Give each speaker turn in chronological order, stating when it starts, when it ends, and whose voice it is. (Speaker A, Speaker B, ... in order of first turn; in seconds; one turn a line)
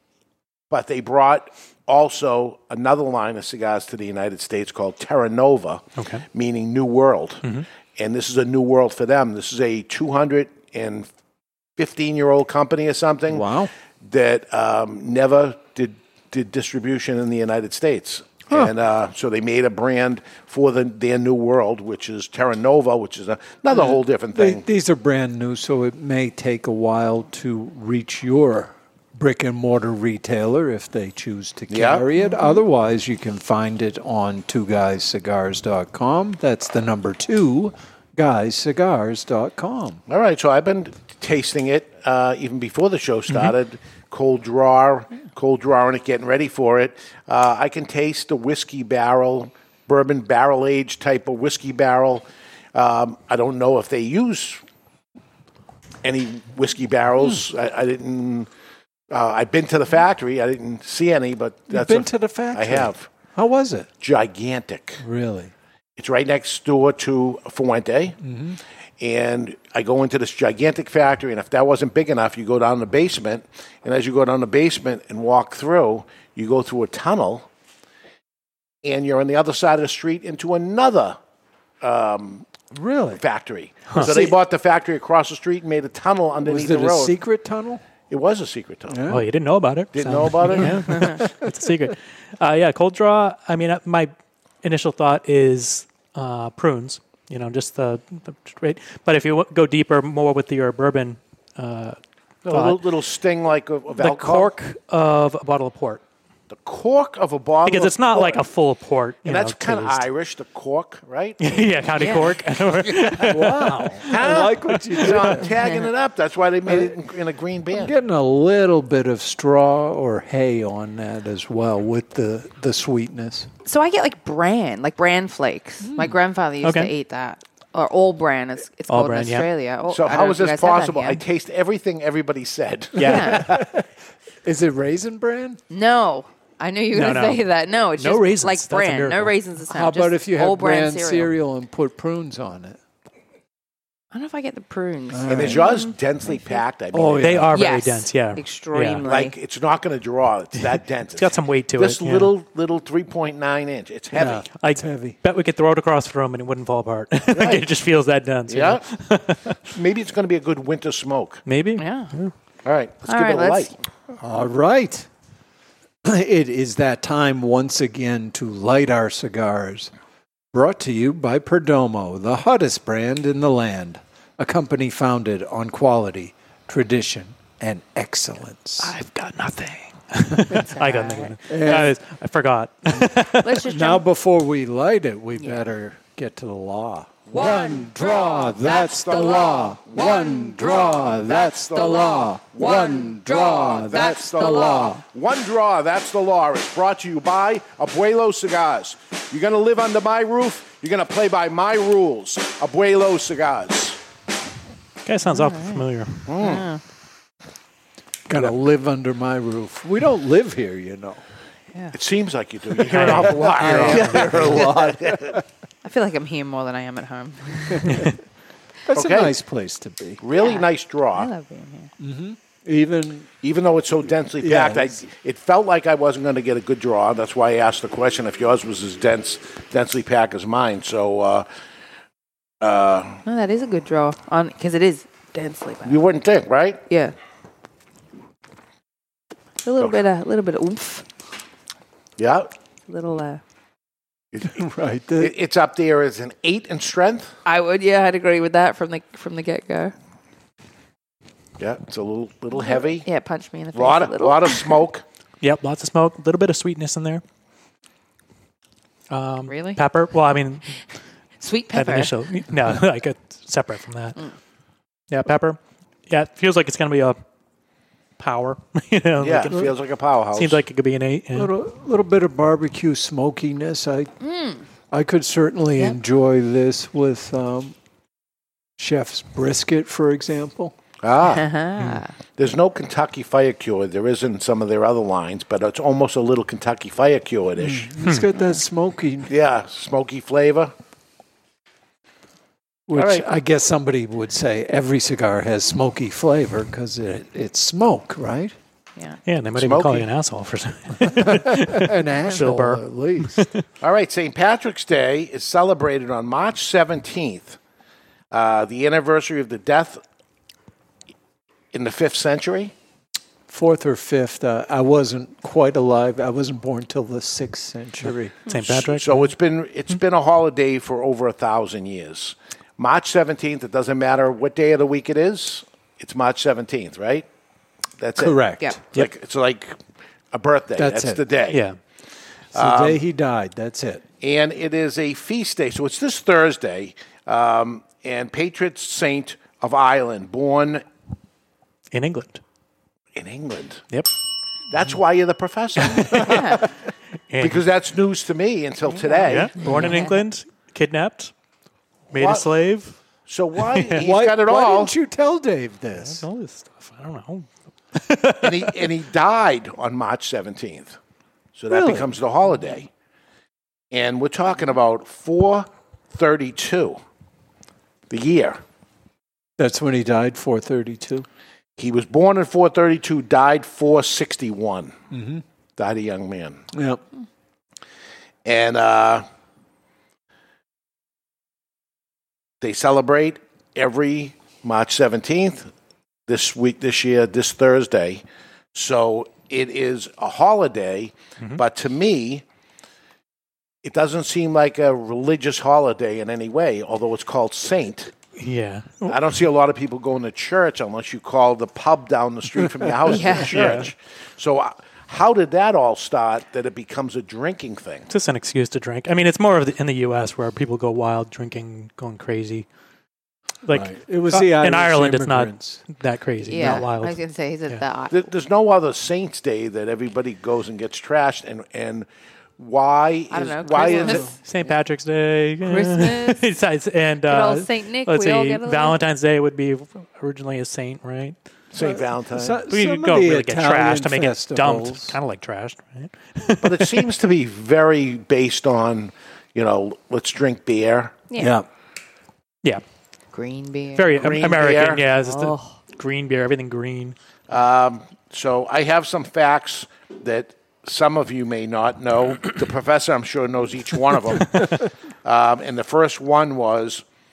Speaker A: 0.7-11.1
Speaker B: 6.0-6.2
Speaker A: 11.8-13.5
Speaker C: 13.3-13.7
Speaker A: 14.0-24.6
Speaker C: 23.7-40.0
Speaker A: 31.7-32.0
Speaker A: 40.1-54.6
Speaker A: 56.0-58.5
Speaker A: 59.1-63.1
Speaker C: 61.7-63.9
Speaker A: 64.0-65.0
Speaker C: 65.0-65.5
Speaker A: 66.0-68.2
Speaker C: 68.2-68.6
Speaker A: 69.0-77.5
Speaker A: 78.8-81.2
Speaker A: 81.8-82.5
Speaker C: 82.7-83.2
Speaker A: 83.1-87.1
Speaker C: 83.9-84.3
Speaker C: 86.4-87.8
Speaker A: 88.1-89.0
Speaker C: 88.9-89.2
Speaker B: 89.1-94.1
Speaker A: 89.9-91.1
Speaker C: 90.9-91.5
Speaker B: 94.6-102.8
Speaker A: 102.5-104.5
Speaker B: 104.0-106.0
Speaker A: 106.5-108.4
Speaker B: 107.6-110.0
Speaker A: 109.2-111.5
Speaker B: 111.4-115.4
Speaker D: 112.0-112.3
Speaker C: 113.2-115.5
Speaker A: 114.0-117.9
Speaker D: 115.5-115.8
Speaker C: 116.7-117.0
Speaker C: 117.7-123.5
Speaker D: 123.6-131.2
Speaker C: 125.8-126.1
Speaker B: 126.6-126.9
Speaker B: 128.9-129.5
Speaker A: 129.9-133.7
Speaker B: 133.0-133.3
Speaker C: 133.0-133.9
Speaker D: 133.0-133.4
Speaker C: 134.4-135.6
Speaker D: 135.7-141.3
Speaker B: 136.9-139.3
Speaker C: 139.7-142.8
Speaker D: 144.1-146.6
Speaker C: 145.1-145.7
Speaker A: 145.3-147.5
Speaker C: 146.9-147.6
Speaker B: 147.2-149.0
Speaker D: 147.5-149.3
Speaker A: 149.0-154.4
Speaker B: 151.2-152.3
Speaker C: 154.2-155.2
Speaker B: 154.2-159.6
Speaker A: 157.3-157.7
Speaker A: 158.5-158.8
Speaker A: 159.7-161.4
Speaker B: 161.5-162.3
Speaker D: 161.8-162.1
Speaker A: 162.6-163.7
Speaker D: 163.1-163.7
Speaker C: 164.2-165.1
Speaker C: 166.0-169.9
Speaker C: 170.5-178.9
Speaker B: 178.8-183.6
Speaker D: 180.8-181.3
Speaker C: 181.5-182.0
Speaker C: 182.9-195.0
Speaker D: 183.4-184.0
Speaker D: 185.4-185.6
Speaker A: 187.3-204.0
Speaker D: 192.9-193.4
Speaker D: 193.9-195.0
Speaker B: 205.0-206.2
Speaker D: 205.2-205.8
Speaker A: 206.3-206.7
Speaker D: 206.4-206.8
Speaker C: 208.3-211.2
Speaker A: 211.9-215.4
Speaker B: 212.9-214.3
Speaker C: 213.3-215.4
Speaker D: 213.7-214.6
Speaker D: 215.8-217.9
Speaker C: 217.7-218.1
Speaker B: 217.9-218.1
Speaker C: 218.9-220.2
Speaker A: 218.9-219.3
Speaker A: 220.2-221.3
Speaker D: 220.4-221.9
Speaker C: 222.0-223.3
Speaker A: 223.4-231.4
Speaker C: 224.4-225.1
Speaker A: 232.6-233.2
Speaker D: 233.2-236.0
Speaker A: 235.8-236.8
Speaker D: 236.9-237.1
Speaker D: 239.6-241.1
Speaker A: 242.2-242.5
Speaker D: 242.9-243.4
Speaker A: 244.3-244.6
Speaker C: 244.4-245.3
Speaker A: 245.2-247.3
Speaker D: 247.4-249.9
Speaker A: 251.6-253.1
Speaker D: 252.6-254.8
Speaker A: 253.7-255.0
Speaker B: 255.4-257.2
Speaker B: 259.1-260.7
Speaker D: 259.5-259.8
Speaker D: 261.4-262.1
Speaker B: 261.7-264.2
Speaker B: 265.1-267.2
Speaker B: 268.2-269.8
Speaker A: 269.2-270.6
Speaker B: 270.3-271.5
Speaker C: 271.3-274.1
Speaker D: 274.2-274.6
Speaker C: 274.9-277.7
Speaker C: 278.8-280.7
Speaker A: 281.0-281.5
Speaker D: 281.3-282.1
Speaker A: 282.4-287.9
Speaker C: 287.6-289.3
Speaker A: 289.3-290.7
Speaker C: 292.9-298.5
Speaker A: 292.9-293.2
Speaker B: 299.2-303.6
Speaker A: 299.6-300.1
Speaker C: 301.0-303.5
Speaker A: 303.8-307.6
Speaker A: 308.3-310.0
Speaker A: 311.7-312.7
Speaker C: 313.5-318.4
Speaker B: 318.5-319.3
Speaker A: 318.5-327.2
Speaker A: 328.0-329.8
Speaker C: 328.2-328.8
Speaker A: 330.3-331.6
Speaker C: 330.8-331.2
Speaker B: 331.5-331.8
Speaker A: 332.5-333.0
Speaker C: 332.5-334.0
Speaker A: 334.2-340.8
Speaker B: 341.9-342.4
Speaker A: 343.1-343.8
Speaker A: 344.7-346.7
Speaker B: 345.8-346.6
Speaker D: 346.2-346.6
Speaker B: 347.3-347.6
Speaker A: 347.4-349.9
Speaker D: 348.9-350.2
Speaker B: 349.3-351.3
Speaker C: 349.6-350.0
Speaker B: 352.1-352.9
Speaker A: 352.1-352.5
Speaker A: 353.3-354.9
Speaker B: 353.6-354.0
Speaker C: 354.0-356.2
Speaker B: 356.0-358.8
Speaker A: 358.4-361.0
Speaker A: 361.5-362.9
Speaker C: 361.7-362.1
Speaker A: 363.9-367.0
Speaker A: 368.1-368.6
Speaker C: 369.6-371.2
Speaker A: 371.8-374.9
Speaker C: 375.1-375.4
Speaker A: 375.8-376.6
Speaker C: 376.7-377.0
Speaker A: 378.4-379.2
Speaker A: 382.6-385.7
Speaker A: 386.3-388.2
Speaker A: 388.7-392.4
Speaker A: 393.8-398.1
Speaker B: 398.4-399.2
Speaker A: 399.1-408.1
Speaker D: 403.1-403.8
Speaker B: 403.5-403.9
Speaker B: 408.1-412.6
Speaker B: 413.6-417.2
Speaker C: 413.7-415.8
Speaker D: 416.4-418.2
Speaker A: 418.1-424.3
Speaker D: 423.3-424.7
Speaker C: 424.0-424.3
Speaker B: 424.4-431.4
Speaker D: 425.6-426.4
Speaker D: 427.2-429.0
Speaker A: 431.7-432.6
Speaker C: 431.8-435.2
Speaker B: 432.7-437.1
Speaker A: 436.6-441.2
Speaker C: 441.4-441.6
Speaker D: 443.3-444.1
Speaker B: 443.9-447.1
Speaker A: 444.1-445.0
Speaker D: 445.2-445.7
Speaker A: 447.5-457.0